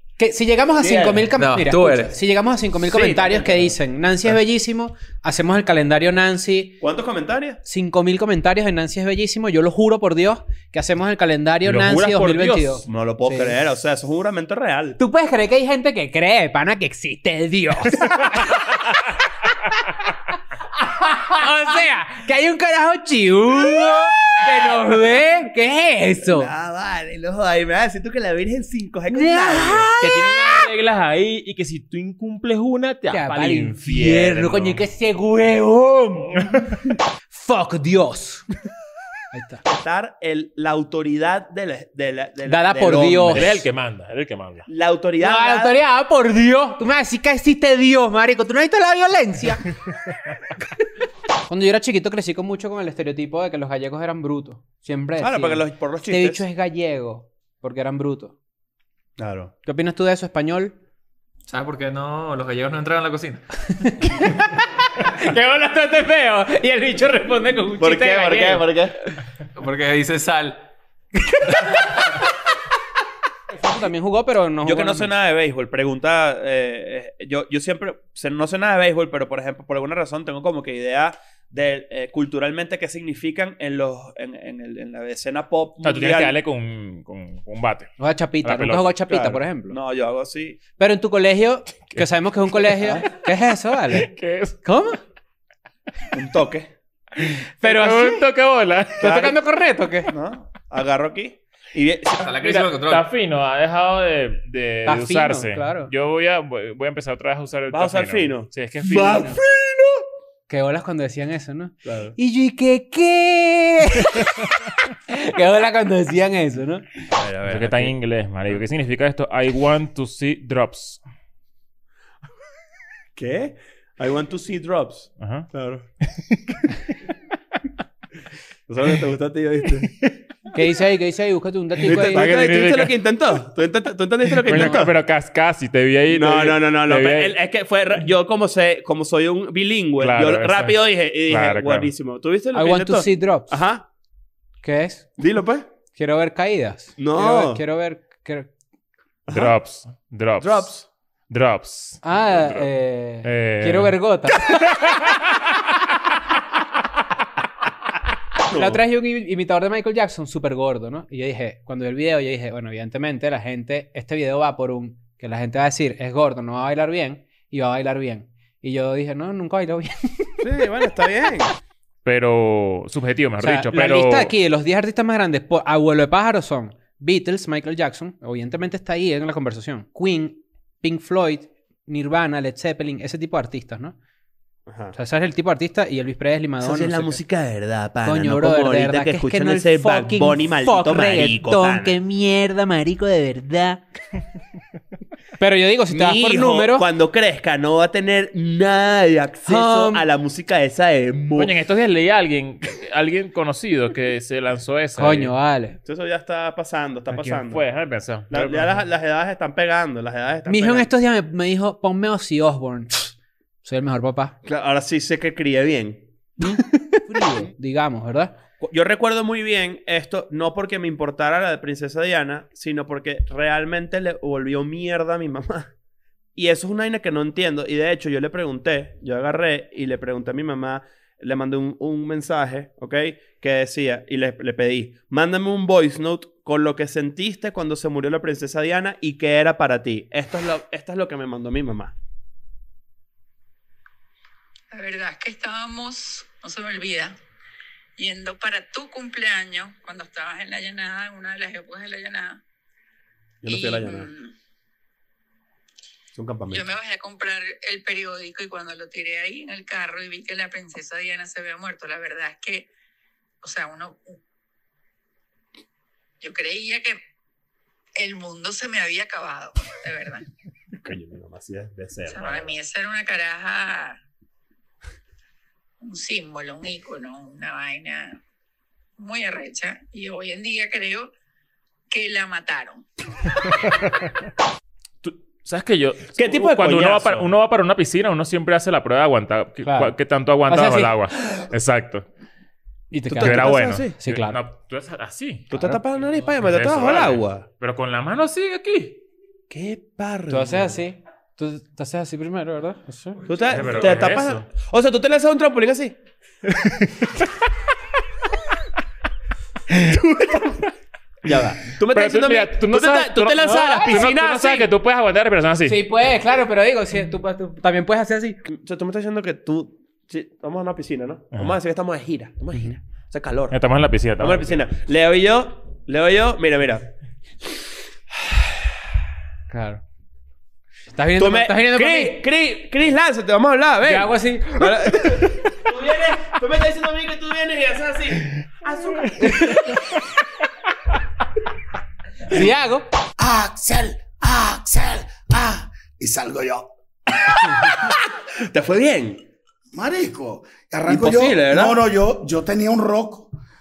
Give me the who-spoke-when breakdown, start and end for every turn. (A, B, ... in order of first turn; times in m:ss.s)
0:00.2-0:06.8 A
0:00.8-0:01.3 B
0:01.3-0:02.1 C
0:02.9-0:03.7 B
0:06.8-0:07.6 B
0:07.6-0:13.5 A
0:11.7-0:12.7 D
0:11.9-0:15.0 B
0:15.0-0:19.0 A
0:21.0-0:26.5 A
0:26.2-0:29.9 B
0:29.1-0:30.4 A
0:30.0-0:34.8 D
0:33.1-0:36.5 A
0:36.4-0:36.9 D
0:37.3-0:38.5 A
0:39.3-0:39.6 A
0:39.6-0:43.6 B
0:42.5-0:43.6 A
0:43.3-0:44.7 D
0:44.7-0:45.8 B
0:45.2-0:49.7 A
0:51.5-0:58.3 A
0:55.2-0:56.4 B
0:59.2-0:59.5 B
0:59.6-1:00.7 A
1:01.5-1:03.4 C
1:03.9-1:04.5 A
1:05.0-1:08.6 A
1:07.8-1:08.9 B
1:09.6-1:10.6 C
1:11.3-1:11.9 A
1:13.5-1:15.1 A
1:14.6-1:26.3 B
1:25.8-1:29.2 D
1:28.0-1:29.8 A
1:29.1-1:30.6 B
1:30.8-1:34.1 A
1:33.9-1:34.6 D
1:34.6-1:35.0 A
1:36.1-1:36.7 B
1:37.6-1:38.2 A
1:37.6-1:39.1 D
1:39.0-1:40.1 A
1:39.0-1:39.4 B
1:40.1-1:42.3 B
1:42.2-1:43.1 C
1:42.3-1:49.3 D
1:44.8-1:45.9 A
1:47.7-1:49.9 B
1:49.1-1:49.3 A
1:50.5-1:54.5 A
1:51.8-1:52.1 B
1:55.1-1:57.0 A
1:57.1-1:57.9 B
1:57.5-2:01.0 D
2:03.2-2:05.8 B
2:05.2-2:05.5 D
2:06.0-2:06.4 D
2:08.7-2:09.9 B
2:10.5-2:12.3 A
2:11.8-2:14.9 B
2:11.9-2:13.0 D
2:14.4-2:17.4 D
2:14.5-2:14.8 A
2:16.1-2:23.8 B
2:20.0-2:21.9 D
2:22.5-2:23.5 A
2:24.6-2:25.2 A
2:25.2-2:25.6 B
2:25.9-2:28.5 A
2:27.0-2:27.6 B
2:29.3-2:29.5 B
2:29.3-2:30.7 D
2:30.4-2:30.8 B
2:31.3-2:32.7 D
2:32.0-2:34.9 A
2:33.2-2:34.0 D
2:38.5-2:38.8 B
2:38.5-2:50.4 A
2:50.4-2:51.5 B
2:52.0-2:54.3 D
2:53.4-3:04.0 A
3:04.7-3:04.9 B
3:04.9-3:07.2 A
3:06.6-3:12.0 B
3:08.0-3:13.8 A
3:15.4-3:16.8 A
3:15.9-3:21.5 B
3:19.4-3:20.0 A
3:21.3-3:25.3 D
3:25.0-3:25.8 A
3:25.8-3:27.6 B
3:27.1-3:28.8 D
3:28.3-3:30.9 B
3:30.5-3:34.4 A
3:34.4-3:36.6 B
3:36.4-3:38.4 A
3:38.6-3:45.7 B
3:46.4-4:01.9 B
4:04.7-4:07.1 E
4:08.0-4:12.4 E
4:13.4-4:14.1 B
4:13.5-4:14.3 E
4:16.1-4:16.7 B
4:16.5-4:22.7 E
4:23.4-4:24.2 E
4:26.2-4:27.0 E
4:28.0-4:30.3 E
4:30.8-4:32.5 B
4:32.1-4:34.0 E
4:35.8-4:38.2 E
4:39.0-4:41.1 E
4:41.9-4:42.8 E
4:45.0-4:52.0 D
4:46.2-4:47.3 B
4:49.6-4:49.9 A
4:50.5-4:50.9 A
4:52.9-4:54.4 A
4:53.1-4:53.9 B
4:53.2-4:55.5 D
4:55.5-4:57.4 B
4:56.4-4:59.0 D
4:59.5-5:00.8 B
5:00.3-5:03.2 A
5:03.3-5:06.0 B
5:03.5-5:04.4 D
5:06.6-5:06.8 D
5:11.2-5:14.7 B
5:11.9-5:15.8 D
5:13.4-5:14.0 A
5:15.6-5:18.4 A
5:18.5-5:23.6 B
5:23.5-5:24.6 D
5:24.2-5:26.9 B
5:29.5-5:29.8 A
5:30.9-5:32.2 A
5:31.2-5:39.7 B
5:33.8-5:35.1 A
5:39.2-5:40.0 A
5:42.3-5:42.9 A
5:43.2-5:46.7 F
5:48.4-5:49.2 B
5:49.7-5:53.3 F
5:50.9-5:51.8 B